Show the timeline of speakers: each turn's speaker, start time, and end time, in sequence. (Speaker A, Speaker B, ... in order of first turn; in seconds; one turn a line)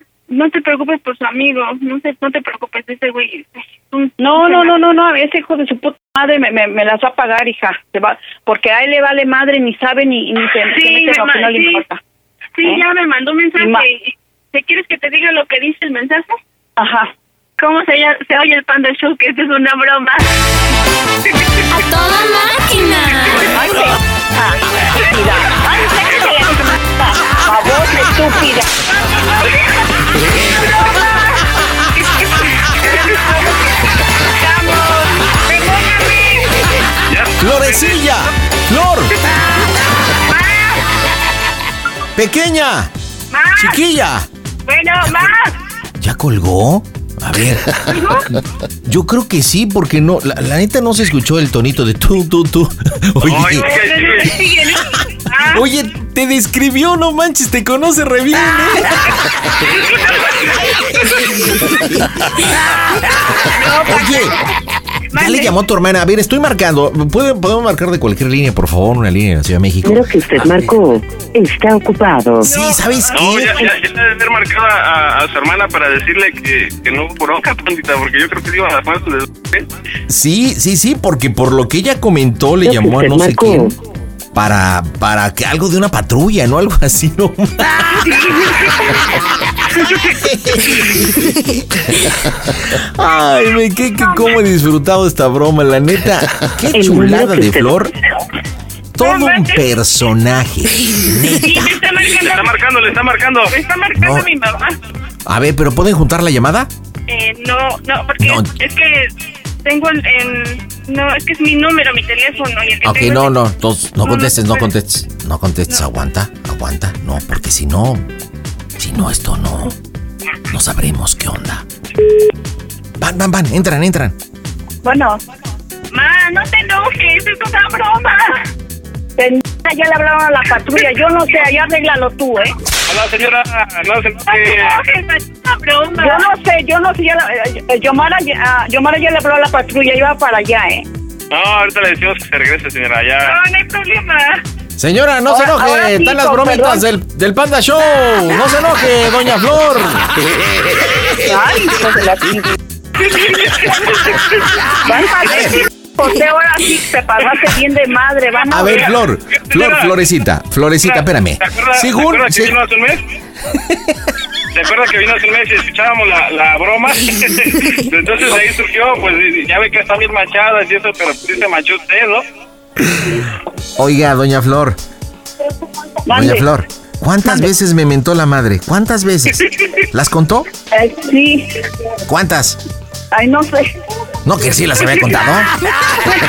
Speaker A: 0.3-4.8
Speaker B: 4.2-12.0
Speaker A: 10.7-11.8
Speaker A: 12.6-16.4
Speaker B: 13.6-13.8
Speaker B: 16.8-17.1
Speaker A: 17.6-20.3
Speaker A: 23.1-23.5
Speaker B: 23.4-28.7
Speaker A: 30.8-31.3
Speaker A: 31.9-36.5
Speaker C: 37.1-38.2
Speaker D: 37.4-39.1
Speaker A: 40.3-40.8
Speaker D: 42.2-42.9
Speaker A: 43.3-43.8
Speaker D: 43.6-44.3
Speaker A: 44.7-45.6
Speaker D: 46.0-48.0
Speaker A: 47.9-48.3
Speaker D: 48.9-53.7
Speaker C: 53.2-54.4
Speaker A: 53.5-55.6
Speaker D: 55.4-59.3
Speaker A: 59.8-60.4
Speaker A: 63.4-64.4
Speaker D: 63.8-64.4
Speaker A: 65.1-65.5
Speaker D: 65.1-70.8
Speaker E: 69.8-72.6
Speaker D: 72.4-73.7
Speaker A: 72.4-72.8
Speaker C: 73.1-79.7
Speaker A: 73.3-73.6
Speaker D: 80.1-83.8
Speaker E: 82.6-83.8
Speaker D: 84.3-88.0
Speaker D: 90.1-91.2
Speaker D: 92.5-97.9
Speaker E: 96.7-97.8
Speaker D: 99.0-101.8
Speaker A: 99.0-99.6
Speaker A: 101.3-102.6
Speaker C: 102.2-103.5
Speaker A: 103.5-104.8
Speaker D: 104.0-104.3
Speaker D: 105.3-106.7
Speaker A: 107.1-109.1
Speaker D: 108.2-108.5
Speaker A: 109.6-113.3
Speaker D: 112.8-118.1
Speaker A: 114.0-114.7
Speaker D: 118.8-119.8
Speaker D: 120.5-121.7
Speaker D: 123.0-124.2
Speaker B: 124.8-125.2
Speaker A: 125.9-128.4
Speaker B: 129.2-132.5
Speaker C: 132.9-134.8
Speaker A: 134.3-136.3
Speaker B: 136.0-140.9
Speaker C: 141.3-143.3
Speaker A: 143.2-144.4
Speaker D: 144.8-150.1
Speaker B: 145.3-146.8
Speaker B: 151.2-152.6
Speaker B: 154.8-158.9
Speaker D: 155.3-155.6
Speaker D: 158.5-162.6
Speaker C: 159.5-159.9
Speaker C: 160.8-163.0
Speaker D: 163.5-163.9
Speaker C: 164.5-172.2
Speaker D: 173.8-174.8
Speaker B: 176.1-176.4
Speaker D: 176.1-180.5
Speaker B: 180.7-181.5
Speaker D: 182.1-182.6
Speaker B: 183.1-183.7
Speaker D: 184.2-185.5